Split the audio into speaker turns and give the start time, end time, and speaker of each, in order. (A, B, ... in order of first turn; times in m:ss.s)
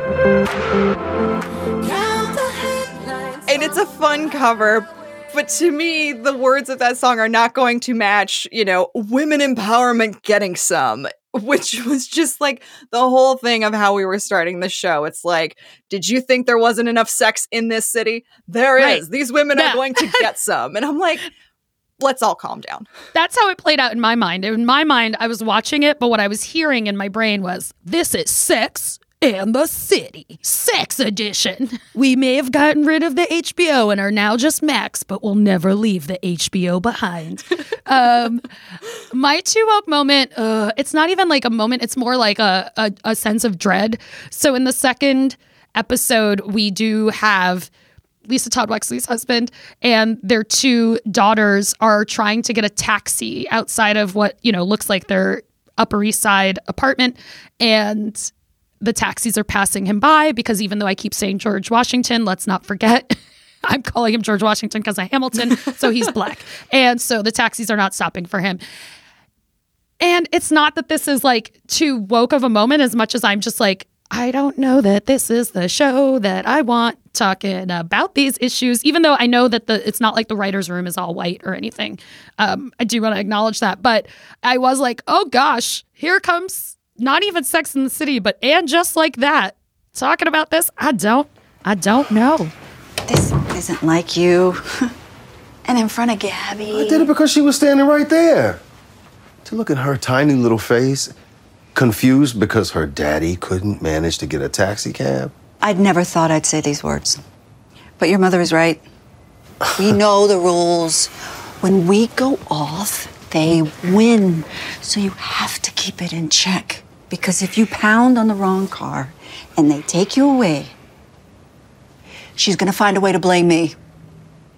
0:01.8-0:03.7 A
0:03.5-0:21.3 B
0:18.8-0:19.0 C
0:19.6-0:20.2 C
0:22.0-0:22.9 B
0:23.1-0:38.4 C
0:39.1-0:47.7 C
0:48.3-1:03.1 C
1:03.6-1:08.6 C
1:10.0-1:32.5 C
1:33.1-1:34.6 A
1:35.6-1:37.1 A
1:36.6-1:38.6 D
1:39.4-1:41.1 D
1:41.7-1:45.3 D
1:45.6-1:47.2 A
1:48.0-1:48.8 A
1:49.7-1:51.1 A
1:51.6-2:00.7 A
2:02.4-2:03.7 A